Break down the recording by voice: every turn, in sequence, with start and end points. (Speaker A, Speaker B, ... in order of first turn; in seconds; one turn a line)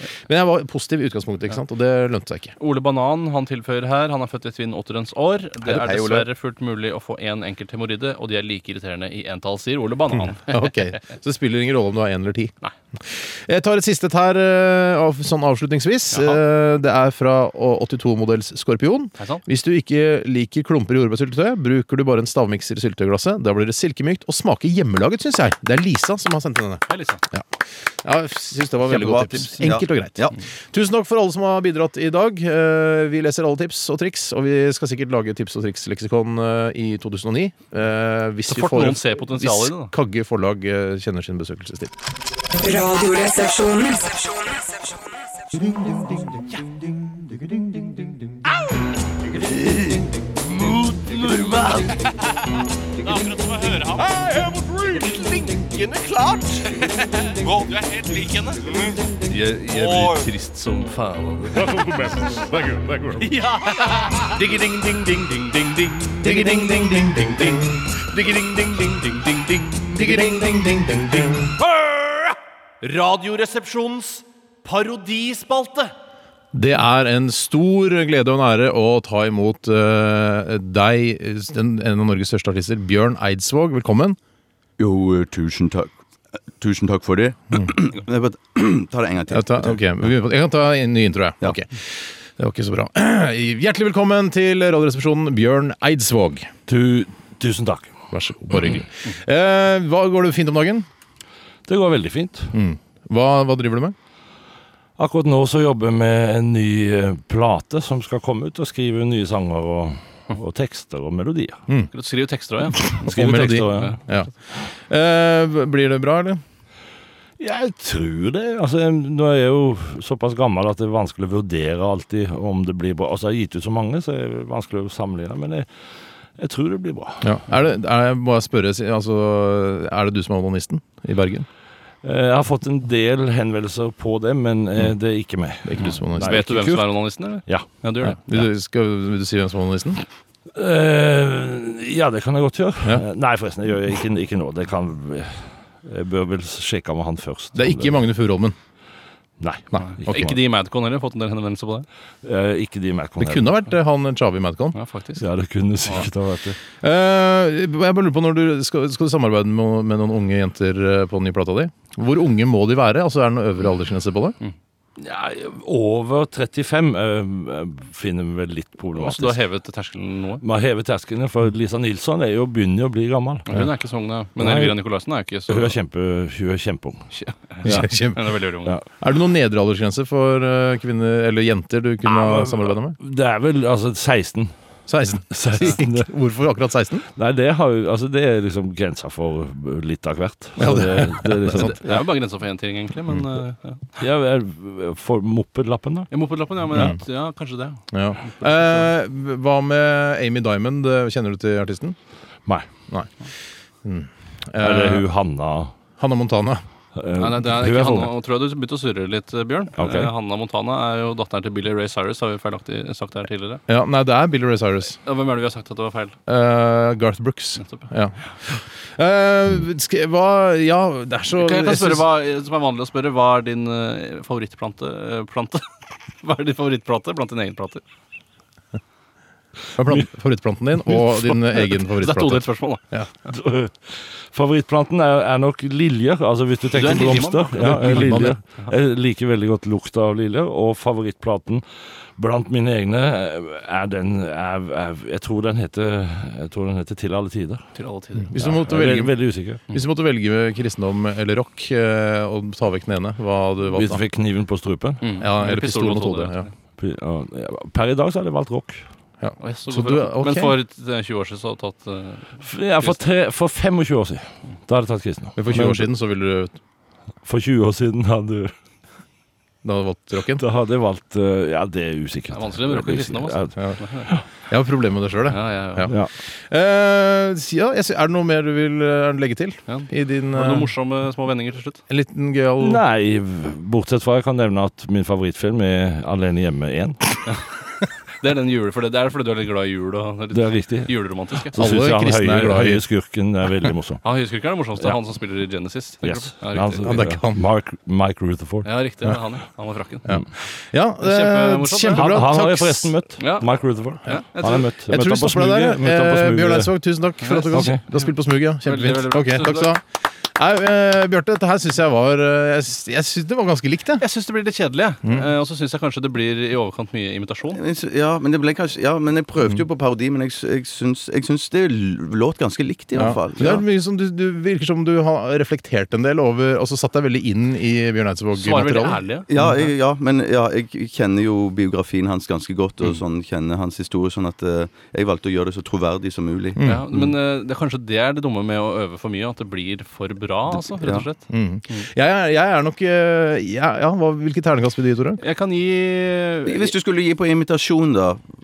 Speaker A: 0.2-2.5
Speaker B: 2.6-10.7
Speaker C: 5.7-6.3
Speaker A: 10.1-27.5
Speaker B: 16.1-16.4
Speaker B: 19.2-19.4
Speaker B: 26.9-27.2
Speaker A: 28.0-41.9
Speaker C: 28.9-30.4
Speaker B: 38.5-39.9
Speaker D: 42.6-45.7
Speaker C: 49.3-50.0
Speaker E: 51.1-51.7
Speaker B: 53.0-54.3
Speaker B: 54.9-58.7
Speaker B: 59.2-61.6
Speaker B: 63.2-66.6
Speaker A: 66.2-67.8
Speaker B: 67.1-70.2
Speaker A: 69.9-71.5
Speaker B: 72.8-75.9
Speaker A: 76.5-84.2
Speaker C: 84.8-85.9
Speaker C: 86.6-89.8
Speaker A: 89.3-96.5
Speaker E: 96.7-98.0
Speaker A: 98.1-100.9
Speaker E: 101.7-102.5
Speaker A: 102.5-104.0
Speaker E: 105.0-111.6
Speaker B: 111.9-114.0
Speaker E: 112.8-114.0
Speaker A: 112.9-116.4
Speaker E: 117.4-125.7
Speaker E: 126.4-127.4
Speaker A: 127.2-131.5
Speaker E: 132.0-137.7
Speaker A: 135.6-136.4
Speaker B: 136.2-138.4
Speaker A: 138.0-140.0
Speaker E: 140.6-148.0
Speaker A: 147.6-148.6
Speaker E: 149.4-150.4
Speaker A: 149.7-150.3
Speaker B: 150.1-151.9
Speaker E: 152.2-153.5
Speaker A: 153.2-154.8
Speaker B: 154.7-155.2
Speaker E: 155.2-156.6
Speaker A: 156.8-164.4
Speaker E: 165.0-169.4
Speaker B: 169.0-170.4
Speaker E: 170.4-173.7
Speaker B: 173.5-175.8
Speaker E: 174.4-174.8
Speaker E: 175.5-177.1
Speaker B: 177.1-178.8
Speaker A: 177.7-178.4
Speaker A: 179.0-183.0
Speaker E: 182.1-184.5
Speaker A: 184.9-187.1
Speaker E: 185.3-186.1
Speaker E: 187.2-192.0
Speaker A: 190.6-191.8
Speaker B: 191.6-194.0
Speaker E: 194.0-196.1
Speaker B: 196.1-198.8
Speaker A: 196.7-197.0
Speaker A: 197.9-202.0
Speaker A: 203.8-205.1
Speaker E: 204.6-205.7
Speaker A: 206.0-206.6
Speaker E: 206.9-208.1
Speaker B: 207.2-213.6
Speaker E: 209.8-210.1
Speaker A: 213.7-215.0
Speaker B: 215.0-216.2
Speaker A: 216.3-222.1
Speaker B: 217.6-217.9
Speaker B: 221.4-225.7
Speaker B: 226.2-227.8
Speaker A: 229.8-233.1
Speaker B: 232.0-233.3
Speaker E: 233.3-241.6
Speaker B: 236.7-238.3
Speaker A: 237.6-238.4
Speaker E: 242.2-247.6
Speaker B: 247.8-248.4
Speaker A: 248.3-254.1
Speaker E: 248.4-249.6
Speaker E: 253.7-255.0
Speaker B: 255.0-256.5
Speaker A: 255.2-256.5
Speaker E: 256.8-258.8
Speaker A: 259.2-260.5
Speaker B: 259.4-263.0
Speaker E: 262.4-265.9
Speaker A: 265.4-266.6
Speaker E: 267.2-268.5
Speaker A: 269.6-270.4
Speaker E: 270.4-274.2
Speaker B: 272.3-274.1
Speaker A: 274.4-280.7
Speaker B: 275.3-275.9
Speaker B: 279.7-281.8
Speaker A: 281.9-282.8
Speaker E: 282.6-287.2
Speaker B: 288.2-291.6
Speaker E: 290.3-294.0
Speaker A: 291.6-292.9
Speaker B: 294.0-297.0
Speaker E: 296.0-298.7
Speaker A: 296.8-297.4
Speaker B: 298.6-300.1
Speaker A: 300.1-302.9
Speaker B: 301.0-302.2
Speaker E: 302.0-306.7
Speaker B: 303.2-303.5
Speaker B: 304.1-304.7
Speaker A: 304.9-314.0
Speaker B: 307.2-308.1
Speaker E: 307.5-307.8
Speaker B: 308.6-309.7
Speaker B: 314.0-317.6
Speaker A: 315.0-315.3
Speaker C: 317.6-323.6
Speaker A: 322.9-329.6
Speaker B: 328.4-329.3
Speaker C: 329.3-336.6
Speaker A: 336.6-337.1
Speaker B: 336.6-341.9
Speaker C: 340.8-341.1
Speaker A: 341.3-345.2
Speaker B: 345.2-346.8
Speaker C: 346.5-348.2